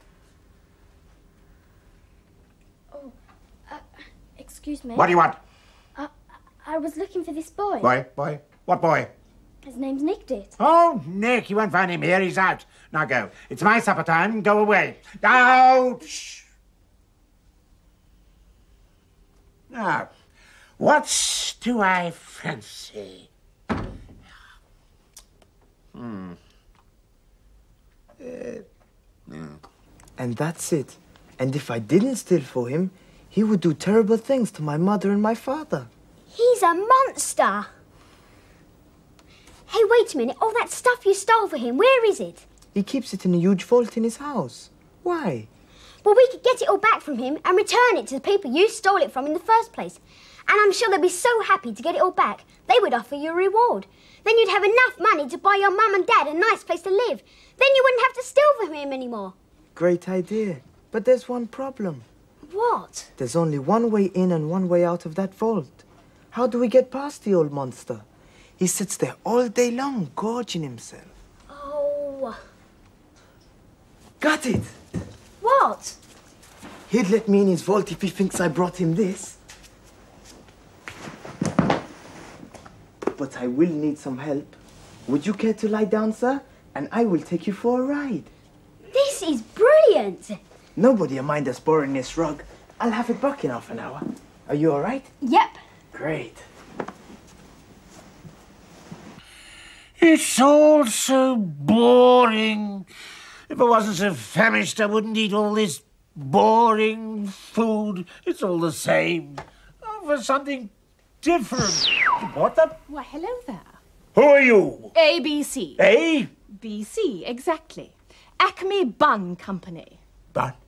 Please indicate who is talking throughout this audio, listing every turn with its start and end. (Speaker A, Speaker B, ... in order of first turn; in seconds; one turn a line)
Speaker A: 4.4-5.2
Speaker B: 5.0-5.4
Speaker A: 6.6-7.9
Speaker B: 7.8-9.1
Speaker A: 9.6-10.6
Speaker B: 10.6-16.4
Speaker B: 19.7-20.1
Speaker B: 20.8-23.3
Speaker B: 25.9-26.4
Speaker B: 28.2-28.6
Speaker B: 29.3-29.6
Speaker C: 30.2-35.9
Speaker D: 36.3-37.7
Speaker D: 39.7-42.4
Speaker C: 42.7-45.5
Speaker D: 46.0-59.3
Speaker C: 59.8-62.0
Speaker D: 62.5-63.1
Speaker C: 63.2-68.0
Speaker C: 68.6-71.1
Speaker D: 71.5-72.3
Speaker A: 71.8-72.3
Speaker C: 74.2-74.8
Speaker D: 75.4-76.0
Speaker A: 75.4-75.9
Speaker C: 76.9-79.4
Speaker C: 83.1-88.3
Speaker D: 88.9-90.4
Speaker C: 90.8-95.1
Speaker D: 95.2-95.6
Speaker C: 95.9-96.4
Speaker B: 100.0-102.8
Speaker B: 103.5-112.8
Speaker E: 112.9-113.8
Speaker B: 114.1-114.9
Speaker E: 114.9-115.8
Speaker B: 115.8-116.3
Speaker E: 116.5-120.0